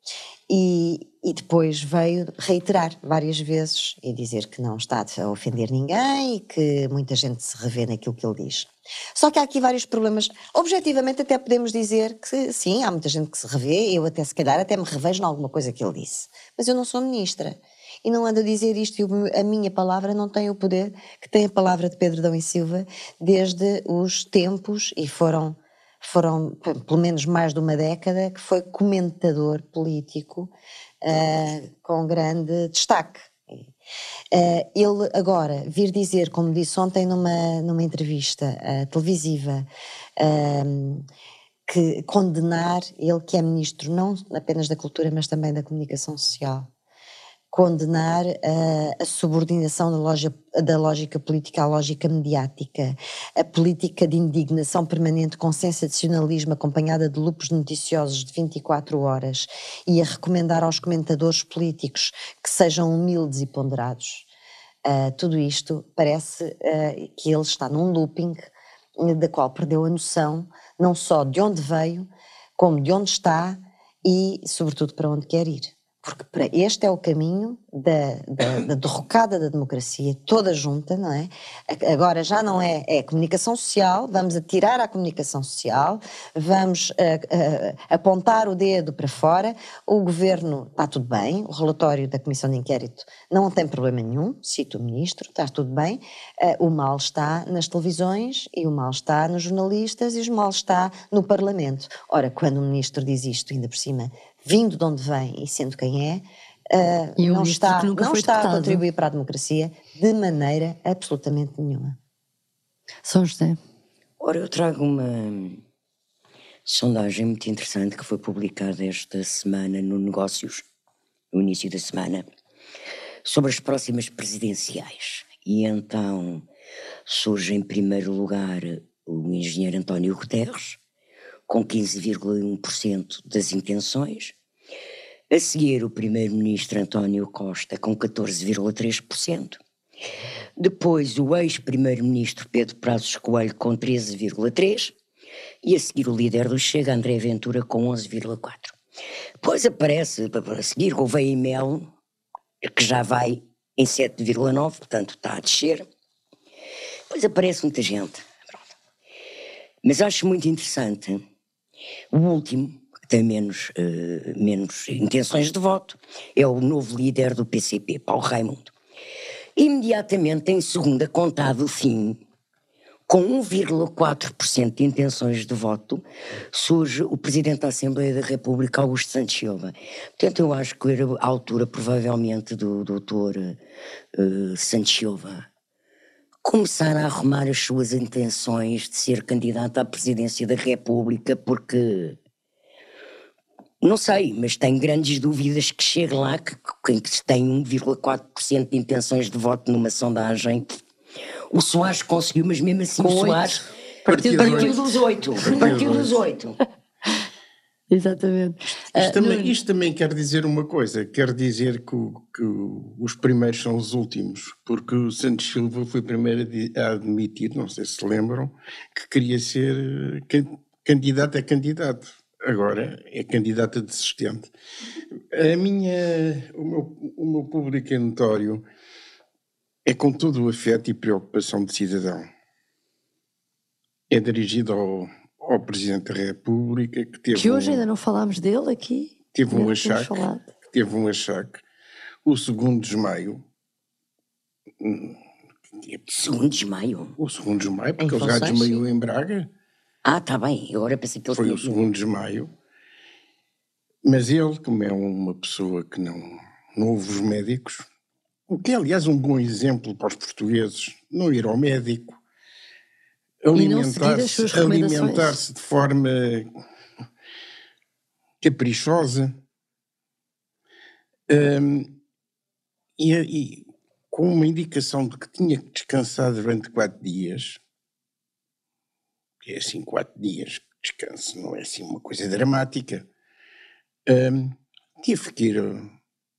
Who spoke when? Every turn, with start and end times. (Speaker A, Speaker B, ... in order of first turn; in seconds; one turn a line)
Speaker A: 0.5-33.6
Speaker A: 34.3-39.7
Speaker A: 40.2-41.0
Speaker A: 41.7-46.7
Speaker A: 47.5-64.3
Speaker A: 64.8-112.0
Speaker B: 107.2-108.8
Speaker B: 113.0-113.6
Speaker C: 114.2-115.6
Speaker C: 116.7-120.7
Speaker C: 121.3-122.2
Speaker C: 123.2-126.4
Speaker C: 127.0-130.8
Speaker C: 131.5-134.3
Speaker C: 135.3-139.6
Speaker C: 140.6-144.9
Speaker C: 145.6-148.7
Speaker C: 149.4-151.9
Speaker C: 152.6-155.8
Speaker C: 157.1-158.7
Speaker C: 159.8-161.2
Speaker C: 162.1-168.7
Speaker C: 169.6-172.2
Speaker C: 173.1-183.6
Speaker C: 184.1-185.4
Speaker C: 186.4-192.2
Speaker C: 193.8-200.8
Speaker C: 201.5-203.6
Speaker B: 203.0-204.8
Speaker D: 204.1-206.2
Speaker C: 204.3-206.6
Speaker B: 205.4-205.7
Speaker B: 207.9-209.6
Speaker D: 208.9-224.5
Speaker D: 225.3-228.6
Speaker D: 229.8-232.3
Speaker D: 234.1-237.8
Speaker B: 237.3-240.4
Speaker D: 239.3-241.6
Speaker D: 242.2-243.4
Speaker D: 244.8-245.2
Speaker D: 245.8-246.0
Speaker C: 246.1-247.2
Speaker D: 247.2-249.5
Speaker B: 248.0-248.8
Speaker C: 250.0-251.7
Speaker D: 251.3-252.5
Speaker D: 254.0-257.8
Speaker D: 258.5-262.2
Speaker D: 263.4-266.5
Speaker B: 263.5-265.4
Speaker D: 268.4-269.3
Speaker D: 271.3-272.0
Speaker D: 273.0-277.6
Speaker D: 279.4-283.1
Speaker D: 284.1-285.9